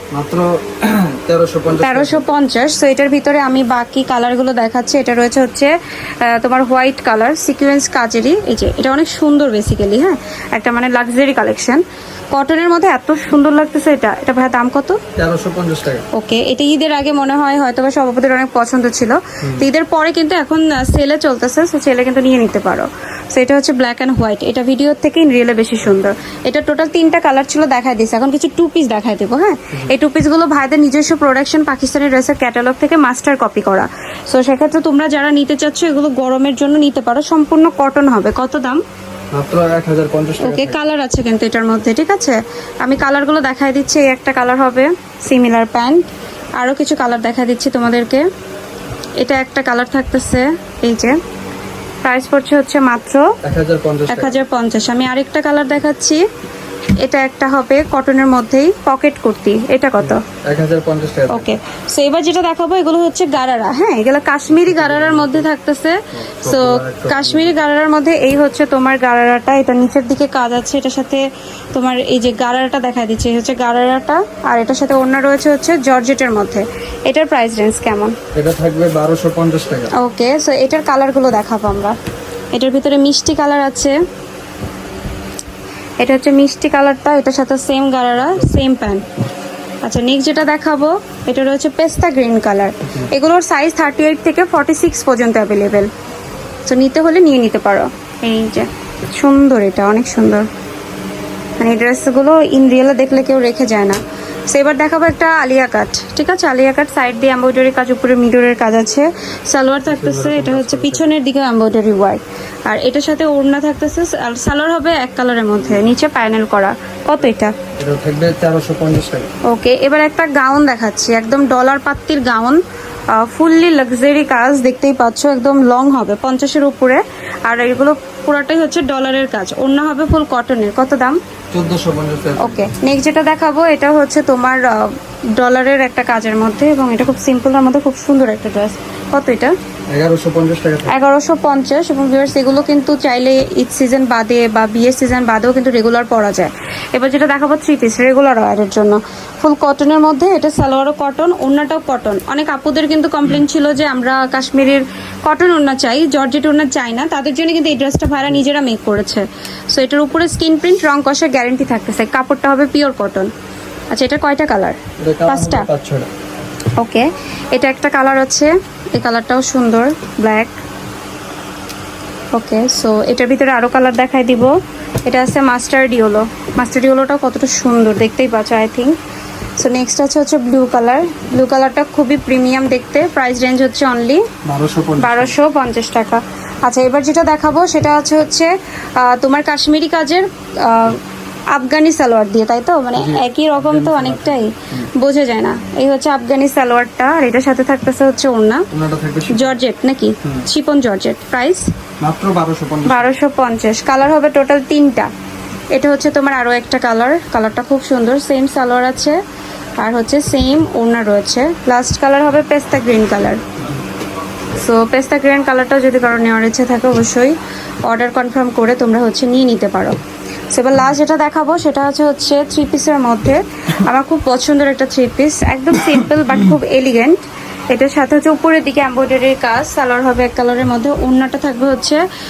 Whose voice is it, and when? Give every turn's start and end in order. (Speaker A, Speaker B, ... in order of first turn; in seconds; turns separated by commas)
Speaker A: 0.1-2.2, Speaker B: 1.8-15.0, Speaker A: 15.2-16.1, Speaker B: 16.1-38.8, Speaker A: 39.3-40.8, Speaker B: 40.4-46.0, Speaker B: 46.6-48.2, Speaker B: 49.2-51.2, Speaker B: 52.0-53.4, Speaker A: 53.4-54.4, Speaker B: 54.1-56.2, Speaker B: 57.0-60.2, Speaker A: 60.0-61.5, Speaker B: 61.3-78.2, Speaker A: 64.5-65.5, Speaker A: 66.2-67.5, Speaker A: 78.3-79.9, Speaker B: 79.9-82.0, Speaker B: 82.5-84.0, Speaker B: 86.0-89.0, Speaker B: 89.8-95.9, Speaker B: 96.7-100.5, Speaker B: 101.6-104.0, Speaker B: 104.5-117.5, Speaker A: 109.8-111.1, Speaker A: 115.6-115.9, Speaker A: 117.8-119.3, Speaker B: 119.4-131.2, Speaker A: 131.5-132.6, Speaker B: 132.4-139.6, Speaker A: 139.9-141.0, Speaker B: 140.9-163.3, Speaker B: 163.9-165.7, Speaker A: 165.0-166.1, Speaker B: 166.8-170.6, Speaker B: 172.3-178.9, Speaker B: 179.6-184.3, Speaker A: 184.4-185.3, Speaker B: 185.0-191.0, Speaker B: 191.5-198.7, Speaker A: 192.9-194.9, Speaker A: 198.7-199.6, Speaker B: 199.3-201.7, Speaker A: 202.0-203.1, Speaker B: 202.8-205.1, Speaker B: 205.7-209.2, Speaker B: 209.8-213.4, Speaker B: 214.6-220.0, Speaker B: 220.5-232.0